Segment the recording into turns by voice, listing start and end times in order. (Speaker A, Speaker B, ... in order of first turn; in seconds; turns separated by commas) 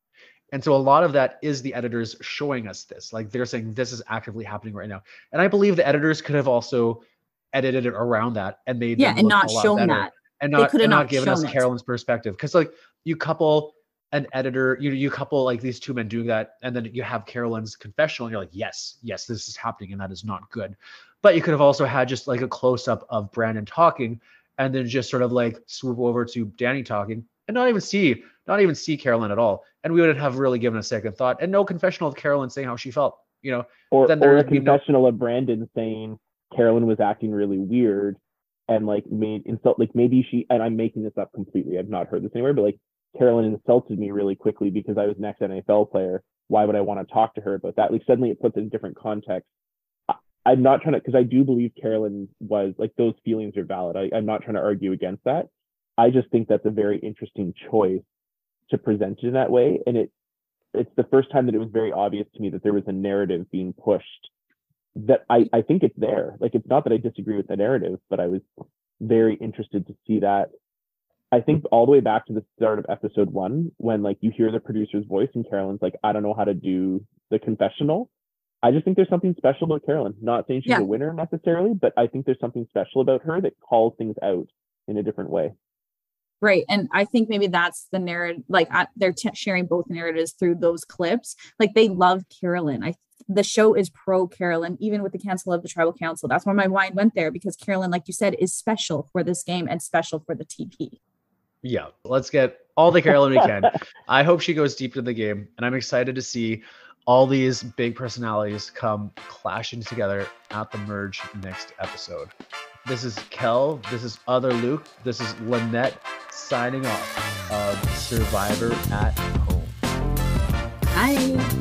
Speaker A: 0.5-34.8, Speaker B: 9.0-11.7, Speaker C: 33.9-49.5, Speaker C: 50.1-58.0, Speaker C: 58.7-60.1, Speaker C: 60.8-64.3, Speaker C: 65.0-68.4, Speaker C: 69.0-70.5, Speaker C: 71.3-78.1, Speaker C: 78.6-85.5, Speaker B: 86.4-101.0, Speaker A: 101.6-112.3, Speaker A: 112.8-119.8, Speaker B: 120.9-121.5